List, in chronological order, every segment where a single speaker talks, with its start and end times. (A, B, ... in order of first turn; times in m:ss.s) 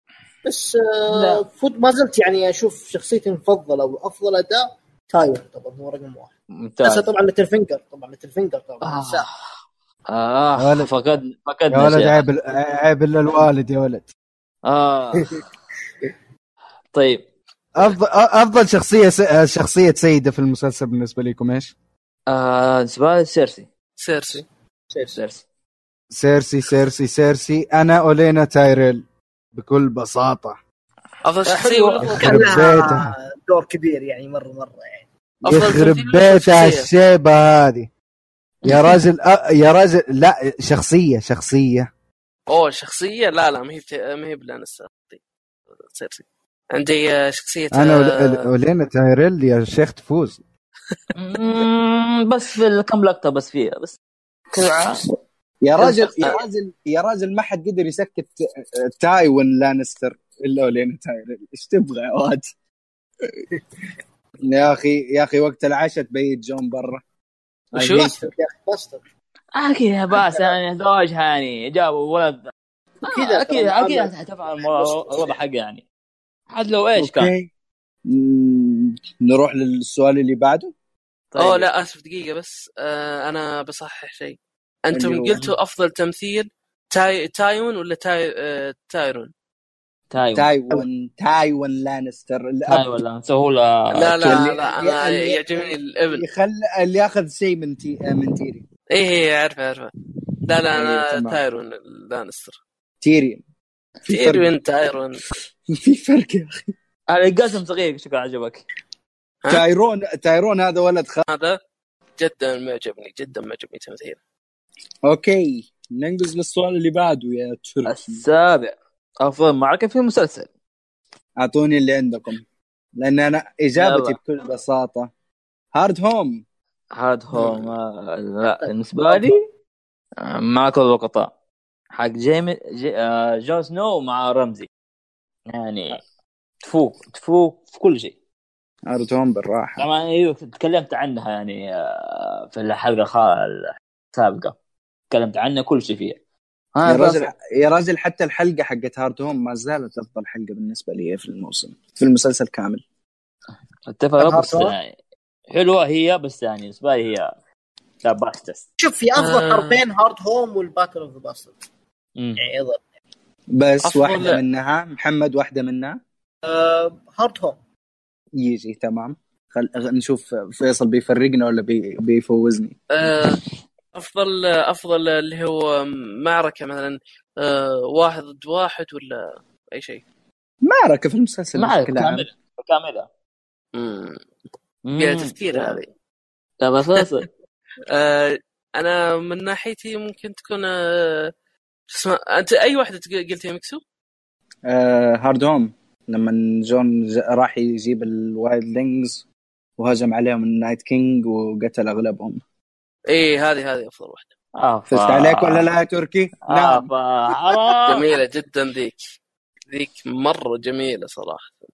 0:00.4-0:09.3 A
0:01.1-0:01.4 B
0:06.6-0:07.1 B
0:08.8-0:09.3 B
0:10.1-0:12.2 B
0:10.6-0:10.9 C
0:11.7-0:14.1 C
0:14.6-0:15.4 B
0:16.9-0:17.2 B
0:17.8-0:21.7 C
0:22.3-0:23.7 B
0:24.0-0:24.4 D
0:24.9-0:25.2 A
0:25.1-0:25.4 B
0:26.1-0:29.0 C
0:29.5-0:30.6 C
0:31.2-0:32.6 D
0:31.5-0:32.2 B
0:32.0-0:35.0 A
0:32.2-0:33.1 C
0:35.4-0:37.9 C
0:35.5-0:36.9 D
0:38.6-0:41.9 C
0:38.6-0:38.9 B
0:42.5-0:45.2 D
0:45.8-0:48.4 D
0:47.7-0:50.4 C
0:51.2-0:54.0 B
0:54.5-0:55.0 B
0:55.6-1:02.5 C
0:55.8-0:56.4 D
1:04.4-1:07.0 C
1:07.7-1:08.3 C
1:07.7-1:08.1 D
1:07.9-1:09.0 A
1:09.5-1:12.5 B
1:13.1-1:15.4 A
1:13.1-1:15.8 B
1:16.5-1:17.3 B
1:17.0-1:17.5 C
1:18.0-1:20.7 C
1:21.3-1:21.6 B
1:21.4-1:29.3 D
1:24.9-1:25.4 C
1:30.1-1:30.5 B
1:30.3-1:32.9 C
1:32.7-1:34.4 B
1:33.9-1:36.2 D
1:34.2-1:38.6 C
1:38.9-1:39.9 D
1:40.4-1:42.5 D
1:40.7-1:41.4 C
1:43.0-1:43.4 C
1:44.0-1:44.5 C
1:44.1-1:45.2 D
1:45.7-1:46.7 C
1:47.1-1:48.6 B
1:49.5-1:51.3 C
1:51.3-1:51.6 D
1:52.2-1:54.2 D
1:55.0-1:58.2 C
1:57.8-2:00.5 B
2:01.4-2:02.4 C
2:03.0-2:05.1 C
2:03.8-2:04.2 B
2:05.7-2:06.4 C
2:07.0-2:09.4 B
2:07.4-2:07.7 C
2:10.2-2:11.3 B
2:11.9-2:14.7 B
2:15.5-2:16.0 B
2:16.6-2:18.1 B
2:18.9-2:19.8 C
2:19.8-2:24.5 B
2:25.1-2:26.2 B
2:26.7-2:27.3 B
2:26.8-2:32.8 C
2:33.9-2:34.9 B
2:34.2-2:34.8 C
2:35.5-2:37.3 B
2:38.0-2:38.6 B
2:38.8-2:41.5 A
2:39.2-2:39.8 D
2:42.4-2:42.8 A
2:43.5-2:46.0 C
2:43.8-2:44.4 D
2:46.4-2:47.6 A
2:48.4-2:52.8 C
2:52.9-2:53.4 D
2:53.9-3:00.0 D
3:00.6-3:02.3 C
3:01.6-3:03.1 B
3:03.7-3:04.2 D
3:04.8-3:05.8 B
3:05.0-3:05.8 D
3:06.6-3:07.3 B
3:07.9-3:11.3 D
3:11.9-3:13.8 D
3:14.7-3:19.2 C
3:19.8-3:22.4 C
3:23.1-3:24.3 D
3:24.6-3:25.6 B
3:24.9-3:26.9 C
3:26.5-3:28.1 B
3:27.5-3:27.7 C
3:27.9-3:29.0 D
3:29.7-3:31.6 D